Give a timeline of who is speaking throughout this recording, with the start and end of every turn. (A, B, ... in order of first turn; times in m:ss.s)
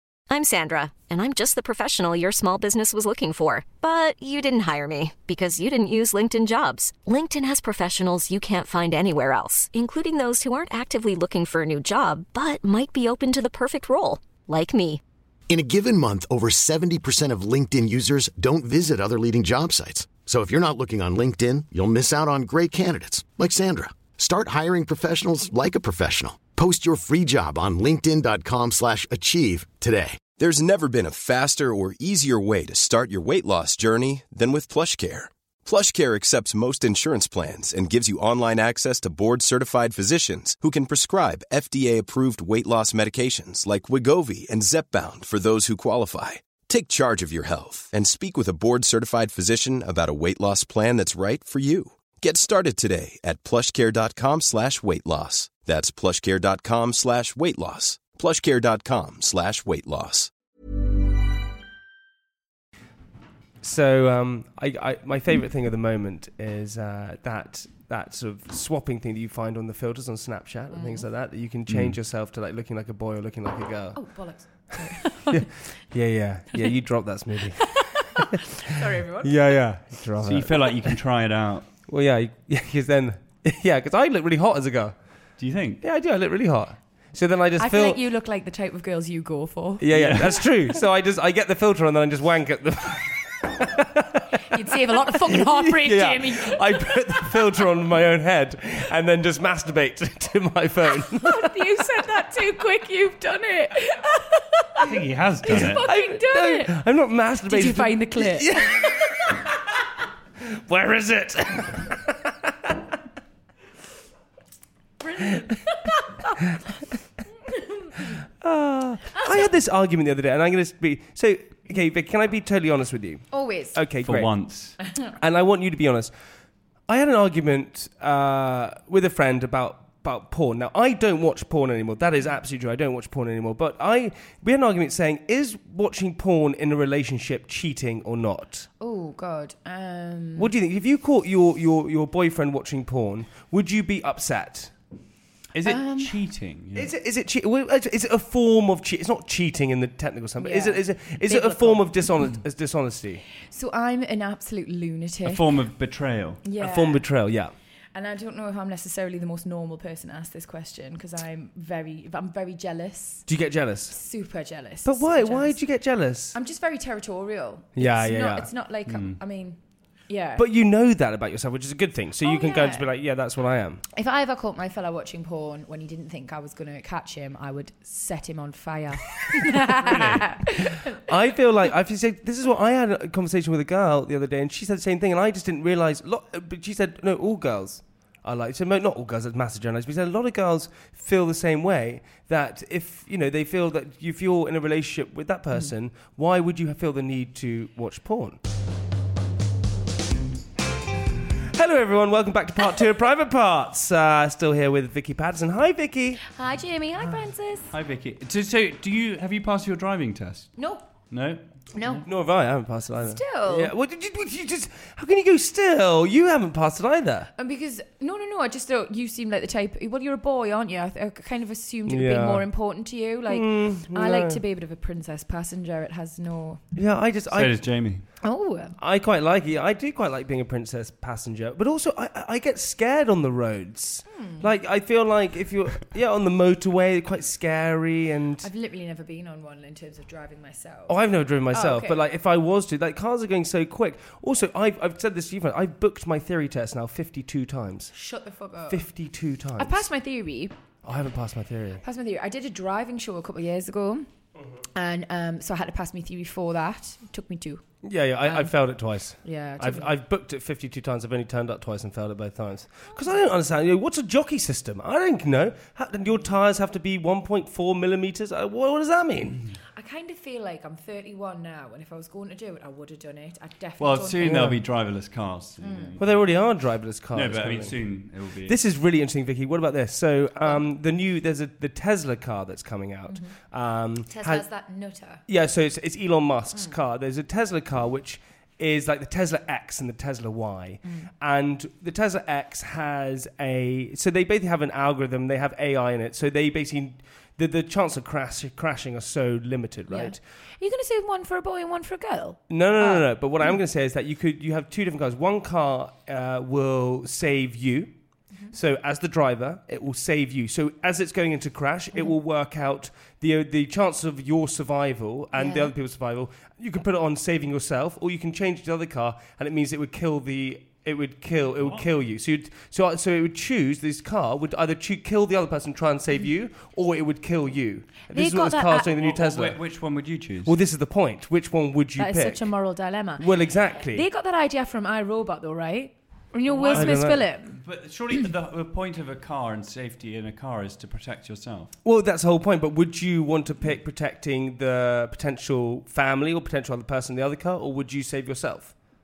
0:00.3-0:15.0 A
0:15.5-0:30.2 B
0:30.4-1:00.3 C
1:03.6-1:18.2 D
1:10.7-1:11.0 E
1:11.7-1:12.0 F
1:13.9-1:15.5 E
1:17.6-1:19.3 E
1:19.2-1:20.8 D
1:20.2-1:21.7 F
1:21.9-1:25.0 D
1:25.4-1:25.8 F
1:25.8-1:28.0 D
1:27.6-1:29.9 E
1:29.8-1:34.6 D
1:29.9-1:30.4 F
1:34.5-1:37.4 E
1:35.3-1:41.5 D
1:41.2-1:44.9 E
1:44.8-1:45.8 F
1:45.4-1:46.8 E
1:45.5-1:49.4 D
1:47.5-1:49.1 E
1:50.5-1:52.2 D
1:55.0-1:56.3 E
1:58.4-2:04.4 D
2:03.3-2:03.8 E
2:04.0-2:04.8 F
2:05.0-2:06.2 D
2:06.9-2:18.7 D
2:18.8-2:20.5 E
2:20.4-2:24.7 D
2:25.5-2:26.9 F
2:25.7-2:26.1 E
2:26.8-2:33.2 D
2:30.4-2:32.0 E
2:33.5-2:35.4 E
2:35.2-2:36.4 F
2:36.4-2:37.1 E
2:36.6-2:37.5 D
2:37.9-2:43.3 E
2:43.3-2:44.0 D
2:43.9-2:45.6 E
2:44.8-2:46.4 D
2:46.3-2:50.5 E
2:47.8-2:48.5 D
2:48.9-2:49.2 F
2:50.4-2:53.8 D
2:52.2-2:52.8 E
2:53.9-3:00.9 E
2:59.7-3:18.4 D
3:21.5-3:26.2 D
3:26.3-3:27.7 E
3:27.7-3:30.6 F
3:30.6-3:30.9 E
3:31.1-3:32.1 F
3:31.7-3:32.0 E
3:32.0-3:37.3 D
3:33.0-3:33.7 E
3:37.4-3:46.6 E
3:41.9-3:42.5 D
3:43.3-3:44.4 D
3:46.8-3:47.9 D
3:47.3-3:48.1 F
3:48.2-3:48.8 E
3:48.8-3:58.5 D
3:54.1-3:54.5 E
3:58.4-4:02.0 E
4:00.9-4:07.9 D
4:07.9-4:08.9 E
4:08.7-4:09.8 D
4:09.6-4:10.5 E
4:10.8-4:11.8 D
4:11.8-4:14.1 E
4:14.7-4:17.6 E
4:17.8-4:29.4 D
4:18.2-4:18.5 E
4:19.2-4:20.0 E
4:22.9-4:23.3 E
4:29.7-4:34.5 E
4:33.8-4:36.3 F
4:34.2-4:34.6 D
4:35.6-4:36.0 E
4:36.0-4:44.5 D
4:37.1-4:38.6 F
4:43.1-4:43.3 E
4:44.1-4:45.2 E
4:45.3-5:00.2 D
4:46.5-4:46.8 E
4:50.8-4:51.1 E
4:59.9-5:03.1 E
5:02.5-5:07.9 D
5:08.5-5:34.1 D
5:15.3-5:15.7 E
5:21.5-5:21.8 F
5:28.1-5:28.9 E
5:28.9-5:30.6 F
5:32.0-5:37.6 E
5:36.5-5:41.8 F
5:36.7-5:37.3 D
5:41.8-5:48.8 D